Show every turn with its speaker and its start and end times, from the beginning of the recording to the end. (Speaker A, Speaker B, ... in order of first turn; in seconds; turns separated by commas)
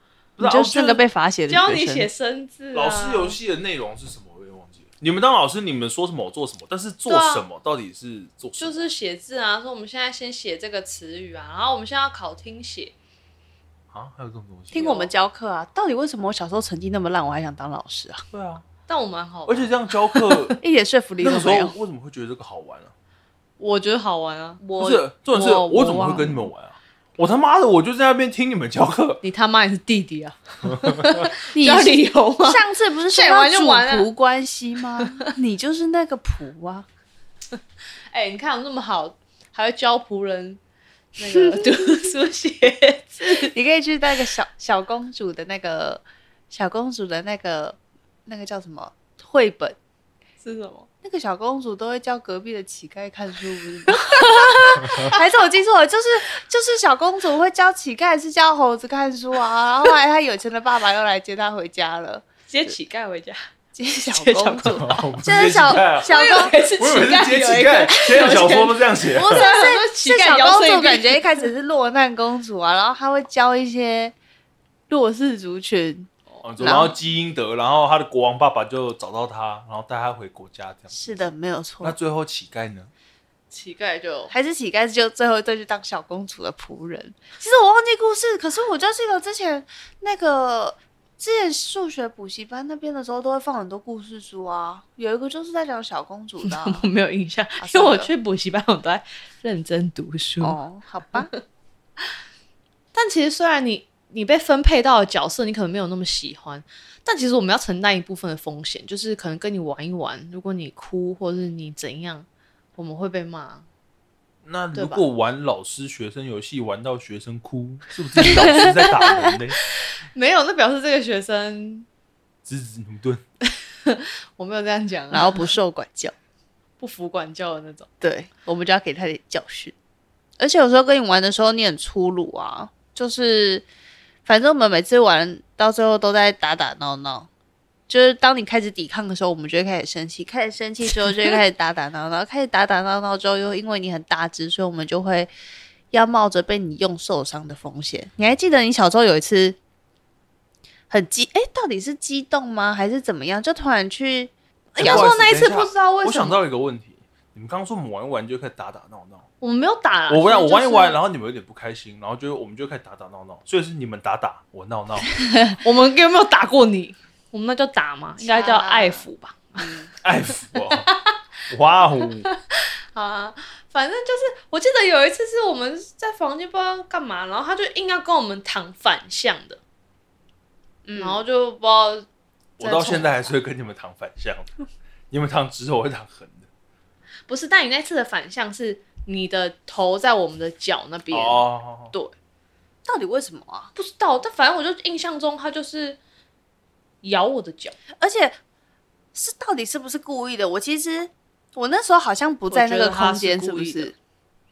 Speaker A: 0.4-1.0, Speaker B: 0.4-2.1, Speaker C: 1.5-3.4, Speaker A: 2.7-8.9, Speaker C: 7.1-7.5, Speaker C: 8.6-12.9, Speaker A: 13.9-14.9, Speaker B: 14.7-18.2, Speaker C: 14.7-15.1, Speaker A: 18.3-18.6, Speaker C: 18.9-19.7, Speaker A: 19.5-20.6, Speaker B: 20.6-21.8, Speaker A: 21.2-22.9, Speaker C: 23.6-26.3, Speaker B: 24.6-25.0, Speaker A: 24.8-29.2, Speaker C: 29.2-32.6, Speaker A: 30.7-31.0, Speaker B: 31.5-36.9, Speaker C: 33.1-34.1, Speaker C: 38.1-40.6, Speaker C: 41.2-43.5, Speaker B: 41.2-41.8, Speaker B: 43.3-49.8, Speaker C: 50.4-50.9, Speaker B: 51.0-62.3, Speaker C: 53.9-55.1, Speaker C: 62.5-63.4, Speaker B: 63.8-66.6, Speaker C: 64.1-65.0, Speaker A: 64.6-69.5, Speaker C: 66.1-71.5, Speaker B: 69.1-74.1, Speaker B: 74.9-76.9, Speaker C: 76.3-76.9, Speaker A: 76.4-81.2, Speaker B: 80.9-82.0, Speaker A: 81.8-82.9, Speaker C: 83.5-84.3, Speaker B: 84.3-96.9, Speaker C: 96.4-100.6, Speaker B: 97.6-98.1, Speaker B: 100.4-101.3, Speaker C: 101.1-101.4, Speaker C: 102.9-113.7, Speaker A: 114.4-119.6, Speaker C: 114.8-115.0, Speaker C: 118.2-118.6, Speaker B: 118.3-119.3, Speaker C: 120.1-121.9, Speaker A: 122.5-123.2, Speaker C: 123.8-125.5, Speaker B: 125.1-126.1, Speaker C: 126.8-127.9, Speaker B: 128.0-129.8, Speaker B: 130.4-133.6, Speaker B: 134.2-137.3, Speaker B: 137.9-145.3, Speaker B: 145.9-149.6, Speaker B: 150.9-155.1, Speaker C: 154.7-156.4, Speaker A: 154.8-159.2, Speaker C: 159.4-161.0, Speaker A: 160.1-165.1, Speaker B: 165.2-165.6, Speaker C: 165.6-169.7, Speaker B: 168.2-169.0, Speaker B: 169.6-169.9, Speaker A: 170.0-170.9, Speaker C: 170.8-171.2, Speaker A: 171.5-172.3, Speaker C: 172.2-179.6, Speaker B: 180.8-181.2, Speaker C: 181.0-182.1, Speaker A: 182.6-184.5, Speaker C: 182.6-183.3, Speaker A: 185.1-186.5, Speaker C: 187.3-192.1, Speaker A: 191.1-191.9, Speaker B: 192.8-193.7, Speaker C: 193.8-196.0, Speaker C: 197.0-197.8, Speaker B: 198.0-198.4, Speaker B: 199.1-203.9, Speaker C: 202.5-203.9